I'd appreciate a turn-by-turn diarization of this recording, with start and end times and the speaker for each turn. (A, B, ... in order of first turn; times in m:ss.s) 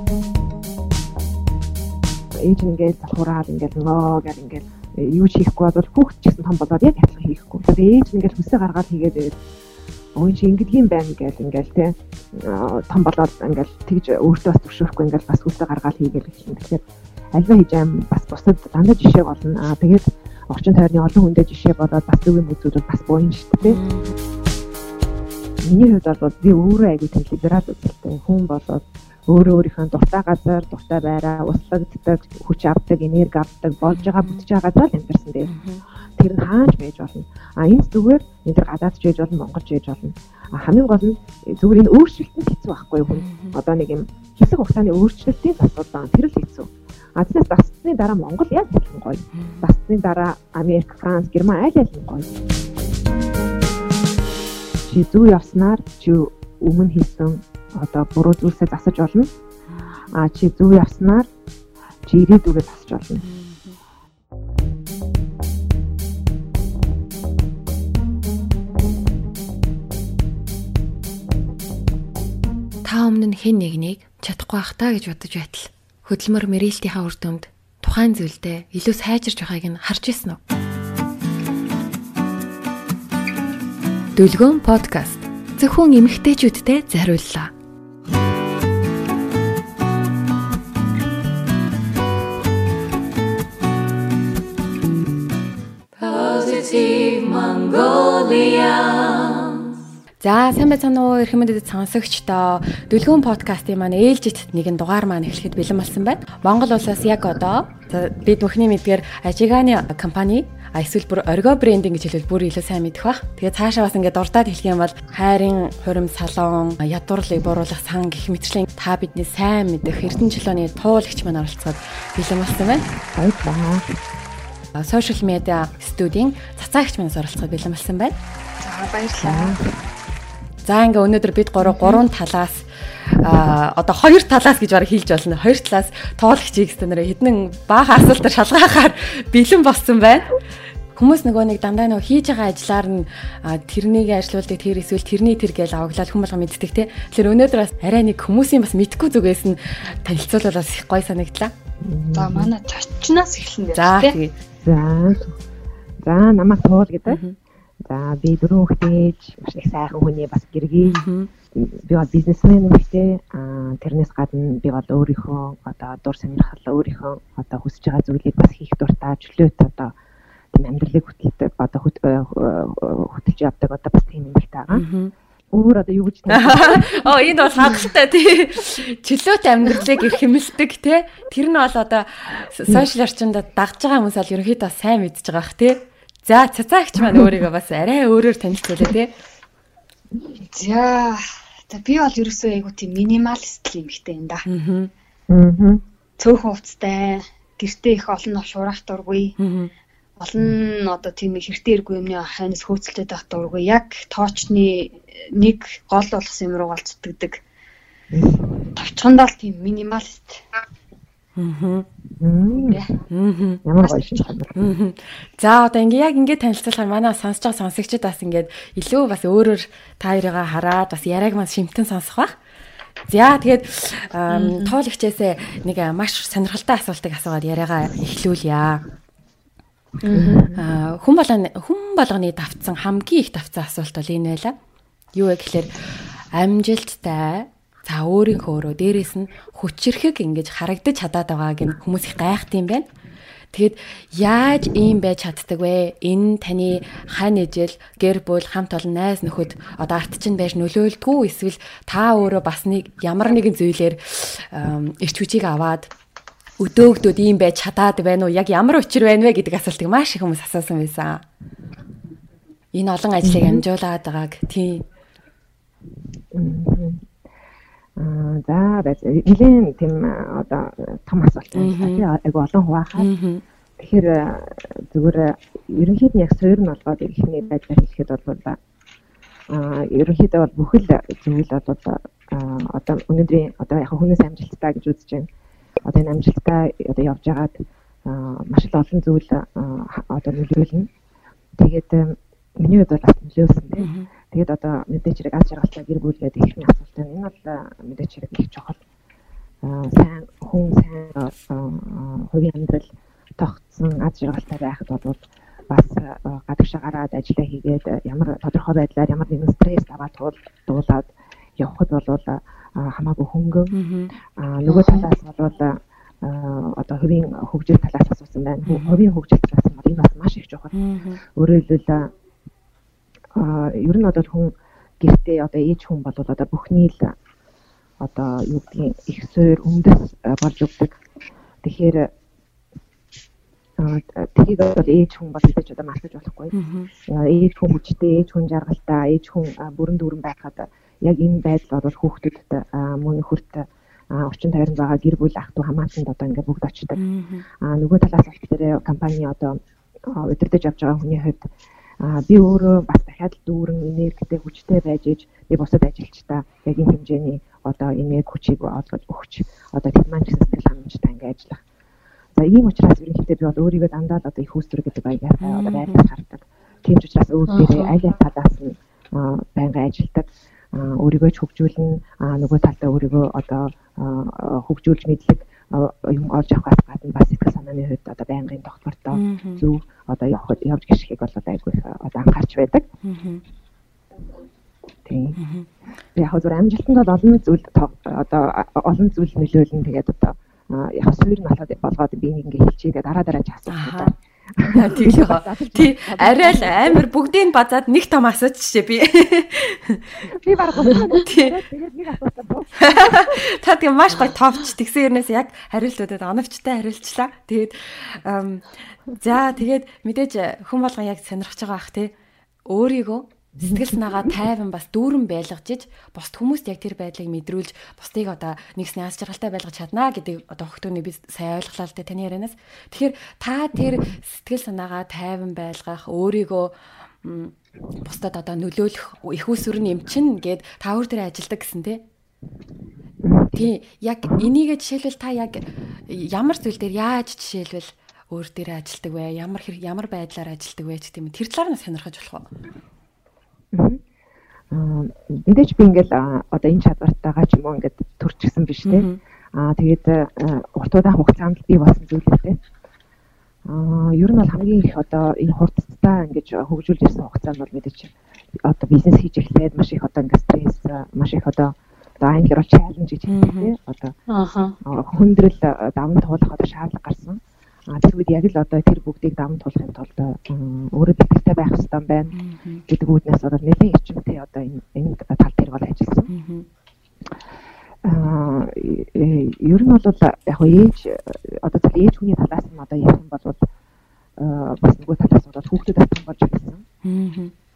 0:02.3-0:09.4 A
0:10.2-0:16.8 A
0:17.3-0:23.8 A
0:23.6-0:24.1 B
0:25.6-0:35.5 A
0:33.9-0:34.4 B
0:35.4-0:35.8 B
0:36.2-0:52.4 A
0:43.1-0:43.5 B
0:49.3-0:49.6 B
0:54.8-0:59.3 A
1:00.1-1:01.3 A
1:02.0-1:03.2 A
1:03.2-1:03.8 B
1:12.8-1:20.4 B
1:24.1-1:27.5 B
1:36.0-2:02.8 B
2:03.1-2:03.9 A
2:04.7-2:08.2 B
2:08.6-2:09.6 C
2:09.2-2:09.7 A
2:10.6-2:20.4 B
2:11.6-2:12.0 A
2:20.9-2:31.5 B
2:31.8-2:32.5 A
2:32.1-2:34.2 C
2:33.7-2:34.4 B
2:34.6-2:35.3 A
2:36.0-2:37.2 A
2:37.1-2:37.4 B
2:37.8-2:41.0 A
2:40.8-2:41.3 B
2:41.5-2:49.9 A
2:50.5-2:54.8 A
2:54.7-2:55.1 B
2:55.5-2:57.7 A
2:56.3-3:09.1 B
3:07.0-3:07.3 A
3:10.5-3:14.4 C
3:14.4-3:14.9 B
3:15.3-3:15.8 A
3:16.2-3:19.4 C
3:19.4-3:19.7 B
3:20.2-3:27.4 C
3:28.1-3:28.7 A
3:28.7-3:30.4 C
3:31.4-3:31.9 B
3:32.2-3:32.8 A
3:32.5-3:32.9 C
3:33.1-3:33.6 B
3:33.6-3:34.6 A
3:33.8-3:34.2 C
3:34.5-3:42.3 B
3:43.1-3:48.8 B
3:44.3-3:44.7 C
3:50.0-3:50.4 C
3:50.1-3:50.6 A
3:50.6-3:54.5 B
3:55.1-3:55.7 B
3:56.3-4:02.9 B
4:03.5-4:15.9 B
4:16.6-4:21.2 B
4:22.7-4:24.8 B
4:23.2-4:23.6 A
4:26.3-4:27.1 A
4:28.0-4:33.1 A
4:31.6-4:32.0 B
4:33.0-4:33.4 B
4:33.8-4:38.6 A
4:39.5-4:45.3 A
4:45.8-4:50.9 A
4:51.6-4:58.8 A
4:53.8-4:54.1 B
4:59.6-5:13.8 A
5:13.7-5:14.1 B
5:14.4-5:20.8 A
5:14.7-5:15.0 C
5:18.7-5:19.0 B
5:20.7-5:21.2 B
5:21.3-5:22.1 A
5:23.3-5:27.2 A
5:28.0-5:31.0 A
5:31.6-5:32.1 A
5:33.8-5:36.5 A
5:36.5-5:36.9 B
5:37.1-5:47.0 A
5:47.0-5:47.4 B
5:47.6-6:01.6 A
6:02.3-6:22.9 A
6:05.4-6:06.0 B
6:07.5-6:08.0 C
6:19.1-6:19.6 B
6:23.0-6:23.4 B
6:25.0-6:25.4 A
6:25.4-6:25.7 B
6:26.2-6:37.0 A
6:33.7-6:34.1 B
6:34.7-6:41.6 B
6:40.2-6:43.4 A
6:42.8-6:52.1 B
6:52.6-7:12.0 B
7:13.2-7:13.7 A
7:13.5-7:22.5 B
7:14.2-7:14.5 A
7:23.7-7:24.0 A
7:24.7-7:32.6 A
7:28.8-7:29.2 B
7:33.6-7:44.2 A
7:43.3-7:43.7 B
7:44.3-7:44.8 C
7:44.8-7:47.4 A
7:47.9-7:52.3 A
7:52.3-7:52.8 B
7:52.9-7:56.3 A
7:56.3-7:56.7 B
7:58.0-8:03.7 A
8:04.4-8:06.8 A
8:07.0-8:07.5 B